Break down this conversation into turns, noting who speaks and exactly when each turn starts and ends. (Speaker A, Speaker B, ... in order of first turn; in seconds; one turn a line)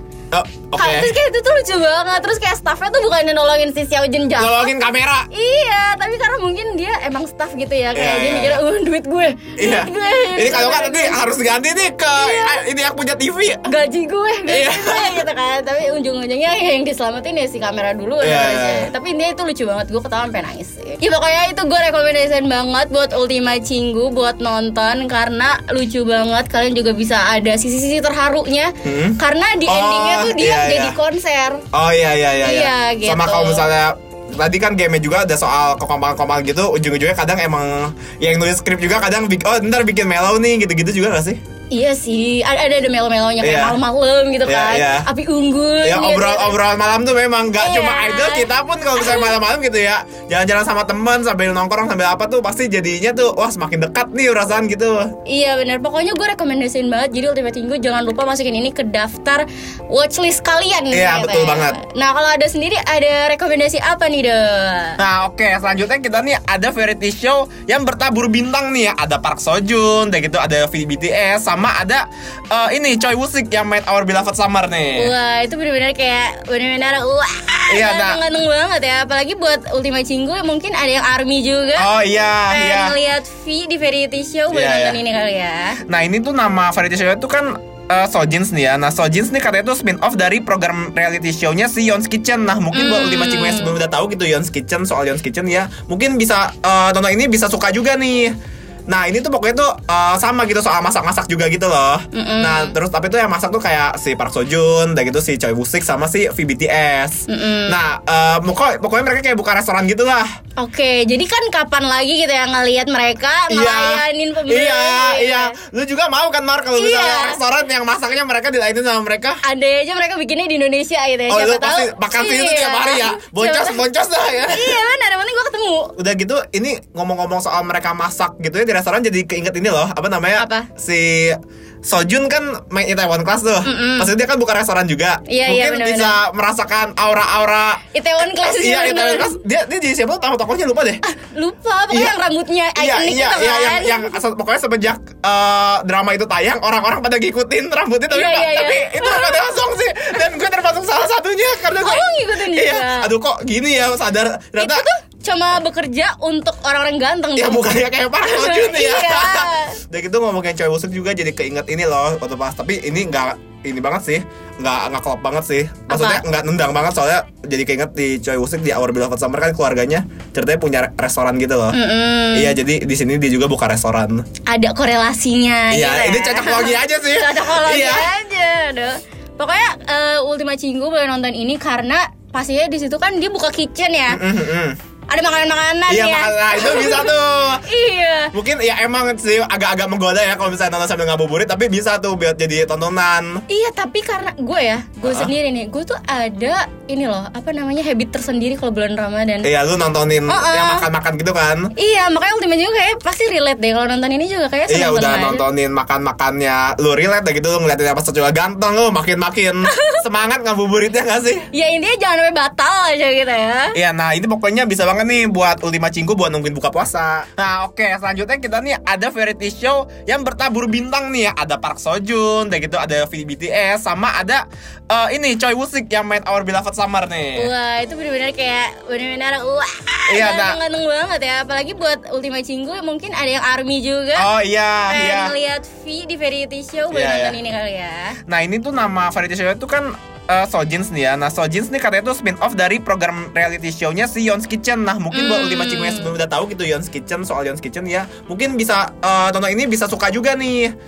Speaker A: 0.3-1.1
Speaker B: 0.8-4.7
Speaker A: 4.4-5.3
Speaker B: 5.3-11.2
Speaker A: 7.9-8.6
Speaker A: 9.6-13.7
Speaker B: 12.1-12.6
Speaker B: 13.7-31.6
Speaker A: 14.4-15.3
Speaker A: 18.2-18.9
Speaker A: 28.9-31.0
Speaker A: 31.7-41.4
Speaker B: 32.4-33.7
Speaker B: 41.7-46.6
Speaker A: 43.4-43.8
Speaker A: 44.5-45.1
Speaker A: 45.8-55.1
Speaker B: 47.6-49.4
Speaker B: 55.3-65.0
Speaker A: 60.9-61.8
Speaker A: 65.0-75.1
Speaker B: 75.0-81.9
Speaker A: 77.7-78.2
Speaker A: 81.8-83.0
Speaker B: 82.5-85.8
Speaker A: 84.5-85.0
Speaker A: 85.9-98.3
Speaker B: 92.7-93.8
Speaker A: 98.9-110.3
Speaker B: 102.1-102.8
Speaker B: 107.3-107.8
Speaker B: 110.6-115.6
Speaker A: 113.5-119.4
Speaker B: 116.8-117.4
Speaker B: 119.4-123.8
Speaker A: 121.3-124.8
Speaker B: 124.5-125.9
Speaker A: 126.0-141.0
Speaker B: 130.4-130.7
Speaker B: 133.6-134.1
Speaker B: 135.3-136.2
Speaker B: 137.9-139.4
Speaker B: 141.0-144.1
Speaker A: 141.9-142.2
Speaker A: 142.8-154.8
Speaker B: 148.1-149.6
Speaker B: 151.8-153.1
Speaker B: 154.6-159.8
Speaker A: 157.3-171.8
Speaker B: 165.9-166.2
Speaker B: 171.7-172.6
Speaker A: 172.3-174.2
Speaker B: 174.5-184.2
Speaker A: 175.7-178.1
Speaker A: 184.1-184.8
Speaker B: 185.1-188.3
Speaker A: 185.9-187.6
Speaker A: 188.3-193.4
Speaker B: 193.5-199.5
Speaker A: 195.0-195.3
Speaker A: 199.4-201.7
Speaker B: 200.3-200.9
Speaker B: 201.8-205.4
Speaker A: 204.7-211.4
Speaker B: 209.7-210.0
Speaker B: 211.5-213.8
Speaker A: 213.7-227.5
Speaker B: 227.3-234.3
Speaker A: 230.1-230.6
Speaker A: 234.2-235.3
Speaker B: 234.9-238.2
Speaker A: 236.9-237.4
Speaker A: 238.3-250.7
Speaker B: 245.1-246.1